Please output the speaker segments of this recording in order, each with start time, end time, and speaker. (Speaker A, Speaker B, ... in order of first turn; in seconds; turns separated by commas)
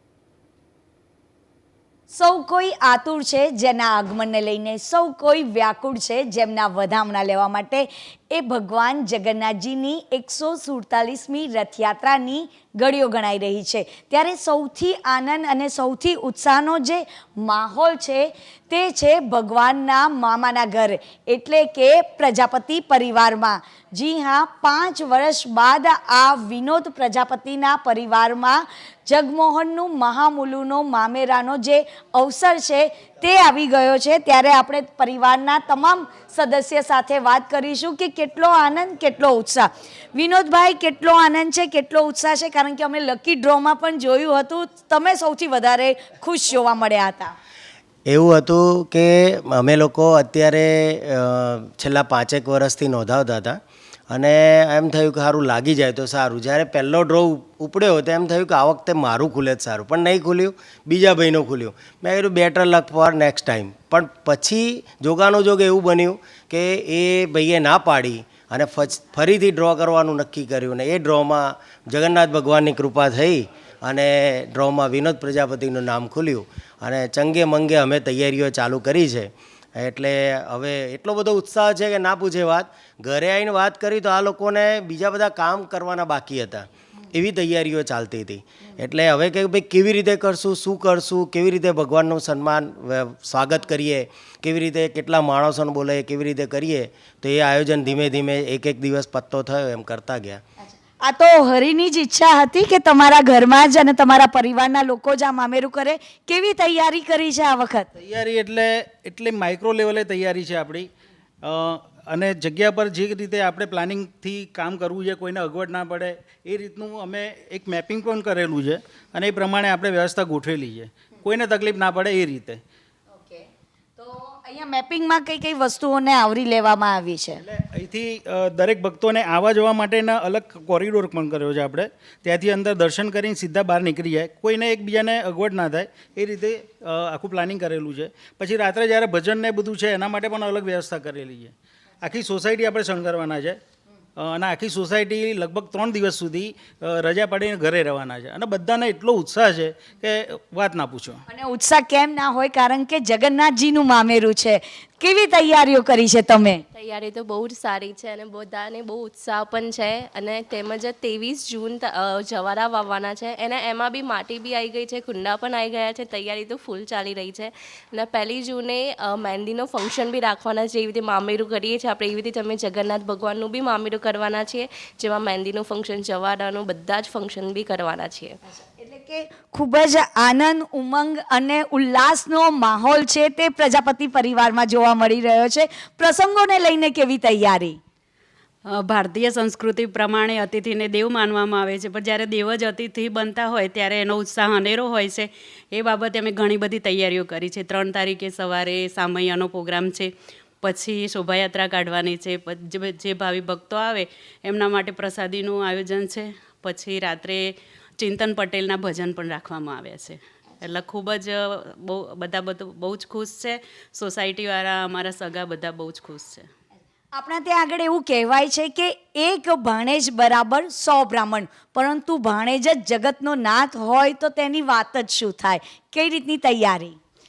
Speaker A: 2.1-47.3, Speaker B: 48.1-53.6, Speaker B: 54.1-100.4, Speaker A: 101.0-107.9, Speaker C: 107.9-110.9, Speaker C: 111.4-122.6, Speaker A: 124.0-127.4, Speaker C: 127.4-143.6, Speaker C: 144.2-151.2, Speaker A: 151.3-156.6, Speaker D: 156.8-178.3, Speaker A: 178.5-187.8, Speaker E: 188.7-216.4, Speaker A: 217.1-227.0